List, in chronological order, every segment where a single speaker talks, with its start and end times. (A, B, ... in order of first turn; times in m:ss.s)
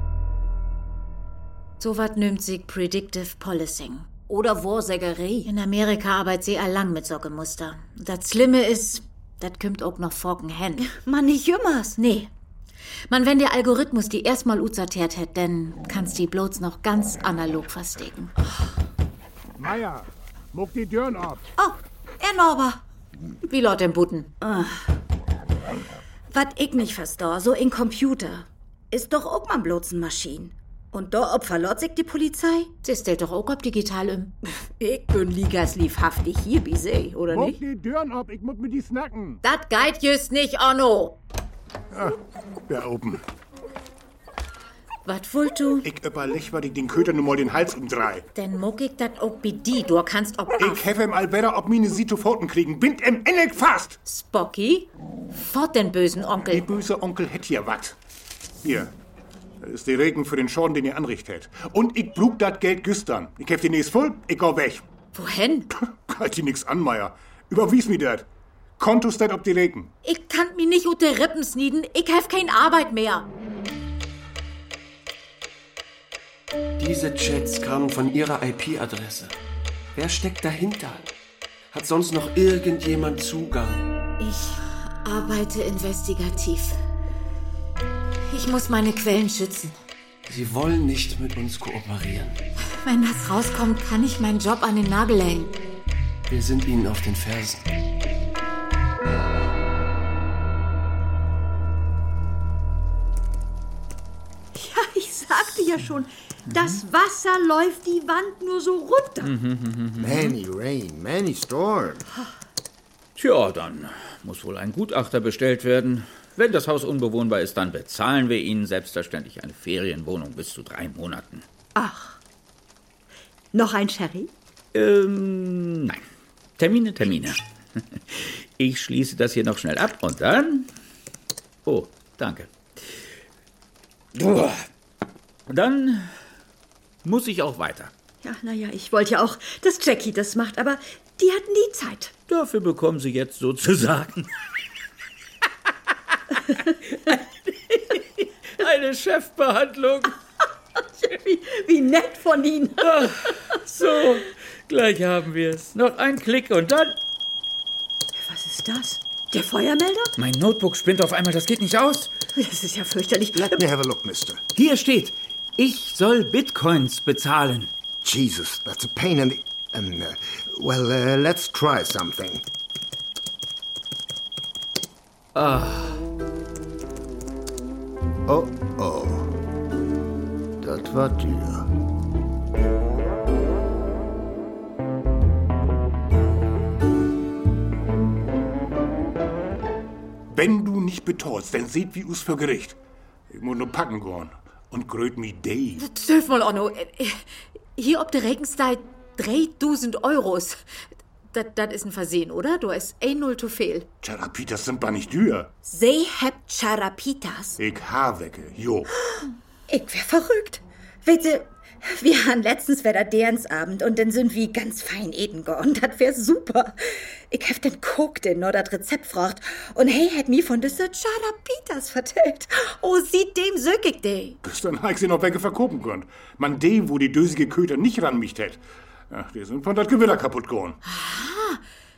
0:01.8-0:04.1 A
0:04.3-0:05.5 B
0:05.4-0:10.9 A
0:10.8-0:12.0 B
0:12.0-0:12.3 A
0:13.1-0:18.3 A
0:19.6-0:21.4 C
0:21.6-0:22.8 B
0:23.4-0:24.3 A
0:24.4-0:24.8 B
0:26.3-0:32.7 B
0:32.8-0:34.3 A
0:34.8-0:37.6 B
0:37.3-0:39.4 C
0:39.4-0:41.2 A
0:41.9-0:43.2 C
0:45.0-0:45.9 A
0:45.8-0:48.3 C
0:48.4-0:50.8 A
0:50.6-0:54.0 C
0:54.0-0:56.7 A
0:56.5-0:58.0 C
0:58.6-0:58.9 C
0:59.6-1:04.8 C
1:05.1-1:05.7 A
1:05.8-1:08.3 C
1:08.8-1:09.9 C
1:10.0-1:13.3 A
1:16.8-1:19.4 D
1:19.9-1:21.1 D
1:21.7-1:23.9 D
1:24.2-1:26.8 A
1:28.3-1:29.8 A
1:30.3-1:32.4 D
1:32.7-1:35.6 A
1:36.3-1:37.7 D
1:44.5-1:49.3 E
1:46.5-1:46.8 F
1:49.2-1:50.4 F
1:50.0-1:52.1 G
1:53.2-2:01.4 F
2:01.8-2:02.2 E
2:03.5-2:04.3 E
2:04.7-2:06.0 F
2:06.6-2:10.7 F
2:11.6-2:12.5 F
2:14.1-2:14.7 F
2:15.5-2:16.1 F
2:17.0-2:17.9 F
2:18.2-2:22.1 E
2:22.3-2:24.3 F
2:27.7-2:28.0 F
2:28.5-2:30.2 F
2:31.0-2:33.6 E
2:32.8-2:37.0 F
2:38.2-2:40.1 E
2:40.2-2:42.1 F
2:42.4-2:43.6 E
2:43.4-2:44.4 G
2:44.6-2:47.7 F
2:48.0-2:52.4 G
2:55.4-2:56.0 F
2:58.3-2:59.4 G
3:00.6-3:01.7 G
3:10.3-3:12.8 C
3:13.3-3:15.8 C
3:15.8-3:17.2 A
3:17.8-3:20.6 A
3:21.3-3:23.9 A
3:24.0-3:25.5 C
3:25.6-3:27.6 B
3:27.6-3:28.9 C
3:29.7-3:44.4 B
3:44.4-3:50.8 C
3:50.8-3:51.6 A